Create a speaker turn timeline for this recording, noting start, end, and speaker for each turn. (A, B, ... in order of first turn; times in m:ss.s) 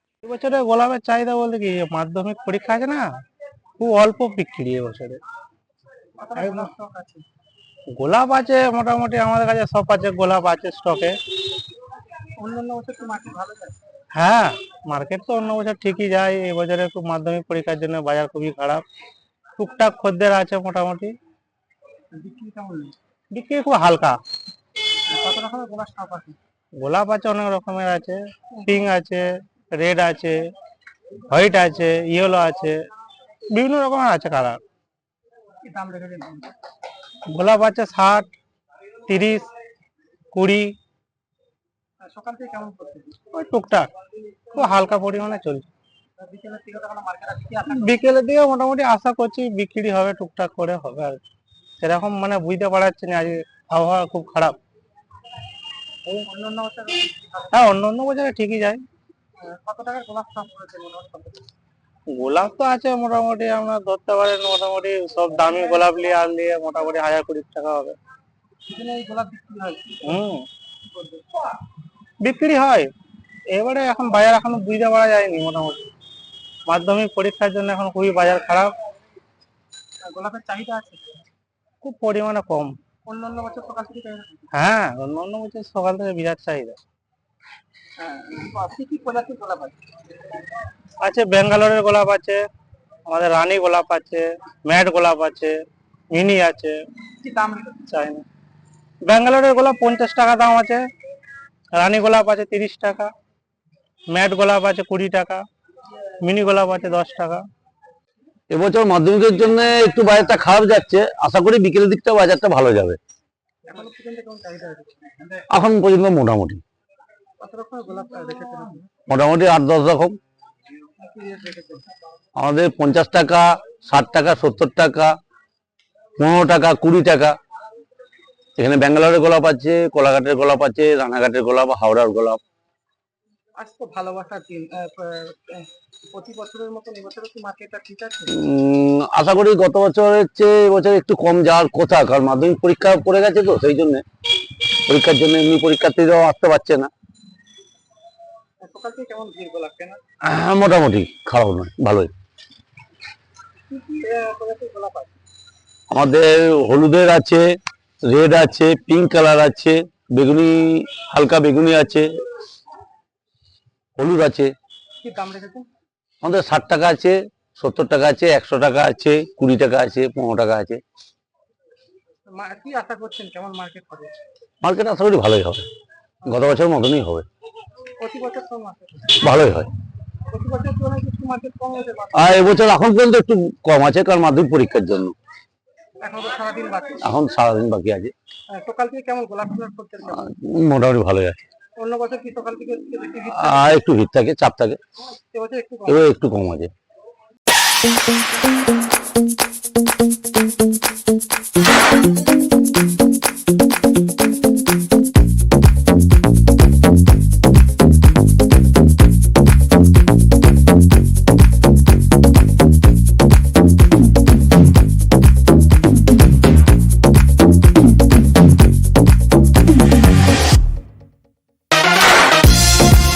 0:00.2-0:03.0 A
0:03.8-0:05.2 A
0:06.2-0:07.2 B
0:06.4-0:06.7 A
0:08.0-0:11.2 A
0:12.4-0:13.8 B
0:14.1-0:18.8 A
0:19.6-0:21.1 A
0:22.1-0:23.0 B
0:23.3-0:24.2 A
0:25.1-0:26.4 B
0:26.8-0:30.4 A
0:28.5-0:28.8 B
0:31.3-0:32.7 A
0:33.5-0:34.6 A
0:35.6-0:36.5 B
0:37.3-0:38.3 A
0:39.1-0:39.5 A
0:40.3-0:40.7 A
0:42.0-0:43.2 B
0:43.3-0:43.9 A
0:44.5-0:45.7 A
0:46.2-0:48.0 B
0:47.7-0:51.2 A
0:51.8-0:54.6 A
0:56.1-0:57.6 B
0:57.5-0:58.8 A
0:59.4-1:01.4 B
1:02.1-1:07.9 A
1:08.7-1:10.2 B
1:10.0-1:10.5 A
1:10.9-1:11.2 B
1:12.2-1:12.9 A
1:13.5-1:15.8 A
1:16.7-1:18.7 A
1:20.0-1:21.1 B
1:21.8-1:22.7 A
1:23.1-1:24.4 B
1:24.5-1:26.8 A
1:28.0-1:29.8 B
1:31.0-1:32.4 A
1:33.1-1:35.5 A
1:36.1-1:36.8 A
1:37.2-1:37.8 B
1:37.9-1:38.2 A
1:39.1-1:40.8 A
1:41.8-1:43.1 A
1:44.1-1:45.4 A
1:46.2-1:47.4 A
1:48.5-1:53.0 C
1:53.7-1:55.4 B
1:55.5-1:56.6 C
1:57.4-1:58.9 B
1:59.1-2:00.2 C
2:01.0-2:01.9 B
2:02.4-2:05.1 C
2:06.2-2:07.4 C
2:08.6-2:12.4 C
2:13.6-2:18.4 B
2:18.3-2:24.0 C
2:24.9-2:26.9 C
2:28.6-2:30.0 B
2:30.2-2:32.1 C
2:33.7-2:35.1 B
2:35.9-2:37.4 C
2:38.0-2:42.1 C
2:44.0-2:44.5 C
2:45.0-2:45.7 B
2:46.2-2:50.8 C
2:52.3-2:54.1 B
2:54.6-2:55.6 C
2:56.2-2:57.2 C
2:58.0-2:59.2 B
2:59.2-2:59.7 C
3:00.3-3:02.6 B
3:02.1-3:05.1 C
3:06.0-3:07.0 B
3:07.0-3:08.1 C
3:08.5-3:10.2 B
3:10.2-3:11.4 C
3:11.8-3:13.8 B
3:13.3-3:14.8 C
3:15.3-3:16.1 B
3:15.9-3:16.7 C